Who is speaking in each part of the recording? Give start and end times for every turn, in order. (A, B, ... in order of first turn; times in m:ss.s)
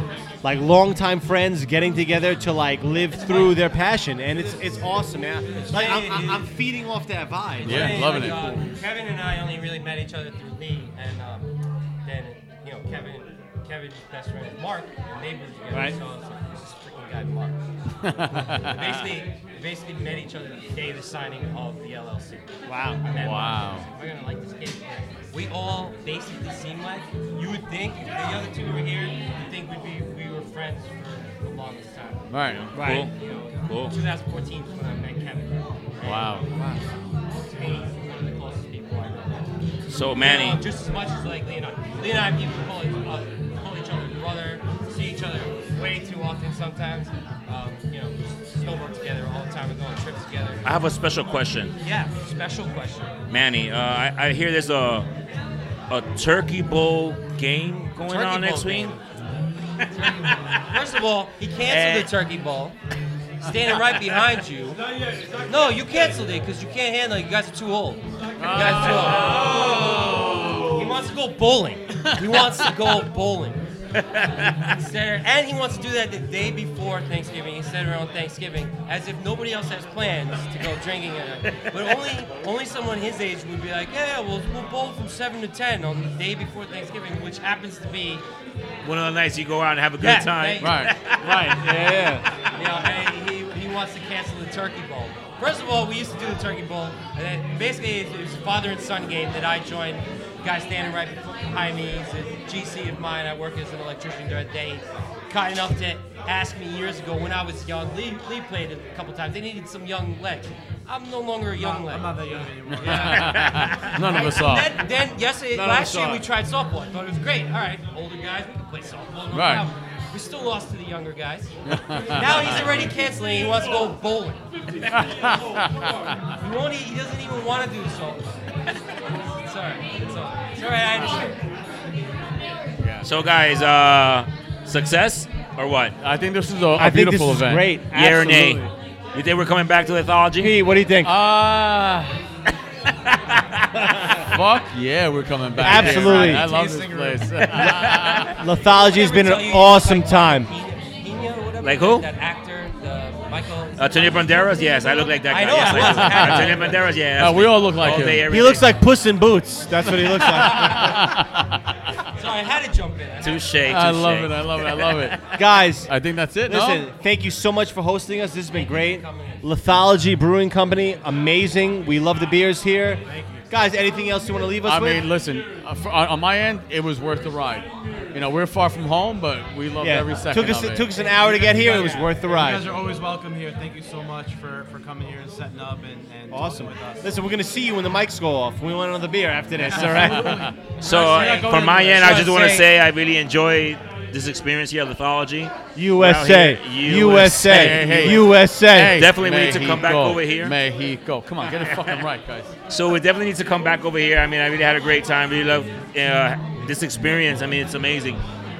0:00.4-0:08.1 A
0:03.1-0:03.6 B
0:04.3-0:04.8 B
0:05.5-0:06.5 B
0:07.6-0:08.8 C
0:07.6-0:11.5 B
0:12.0-0:17.6 B
0:15.7-0:16.0 A
0:18.0-0:19.0 C
0:18.6-0:22.5 B
0:22.7-0:23.0 A
0:23.0-0:36.5 B
0:23.1-0:23.9 C
0:32.3-0:32.7 C
0:32.7-0:33.1 A
0:32.7-0:33.1 D
0:33.6-0:33.9 D
0:36.0-0:36.5 C
0:37.5-0:39.4 B
0:39.9-0:40.6 D
0:40.2-0:50.7 B
0:50.6-0:51.8 D
0:51.8-0:53.1 B
0:53.3-0:55.1 D
0:55.9-0:59.0 D
0:58.0-0:59.0 B
1:00.0-1:00.6 D
1:00.0-1:02.8 B
1:01.7-1:02.1 D
1:03.4-1:04.8 B
1:05.5-1:09.7 B
1:08.4-1:09.5 C
1:08.9-1:10.8 D
1:10.7-1:13.6 B
1:14.0-1:14.6 D
1:14.7-1:28.3 B
1:28.8-1:31.6 D
1:30.0-1:30.9 B
1:30.6-1:31.0 C
1:31.2-1:32.3 A
1:32.4-2:01.5 B
1:51.6-1:53.4 E
1:52.7-1:54.8 C
1:55.5-1:56.2 A
1:59.3-1:59.6 C
2:01.7-2:02.7 C
2:02.0-2:08.6 B
2:04.9-2:05.9 C
2:09.2-2:11.4 B
2:12.8-2:13.1 C
2:13.0-2:16.0 D
2:16.0-2:17.6 C
2:16.8-2:18.7 A
2:17.9-2:20.5 D
2:20.4-2:21.1 A
2:21.0-2:22.2 C
2:24.2-2:28.4 C
2:25.6-2:26.5 A
2:25.6-2:27.6 E
2:27.6-2:28.2 D
2:27.8-2:30.5 A
2:28.7-2:34.7 B
2:31.6-2:32.1 D
2:33.8-2:38.6 D
2:35.2-2:36.8 B
2:35.6-2:38.3 C
2:38.3-2:41.1 A
2:39.9-2:41.8 C
2:42.2-2:43.5 B
2:43.2-2:45.2 D
2:43.7-2:45.2 C
2:45.3-2:45.9 A
2:45.9-2:46.8 C
2:46.5-2:55.1 A
2:48.5-2:49.4 B
2:53.1-2:53.5 E
2:54.6-3:00.9 C
2:59.8-3:02.7 A
3:00.7-3:02.1 B
3:01.0-3:07.0 E
3:06.3-3:10.5 A
3:09.6-3:12.5 E
3:09.6-3:10.5 C
3:10.8-3:12.7 B
3:10.8-3:18.2 D
3:15.8-3:19.1 A
3:17.2-3:22.5 C
3:18.9-3:20.5 D
3:22.7-3:28.2 D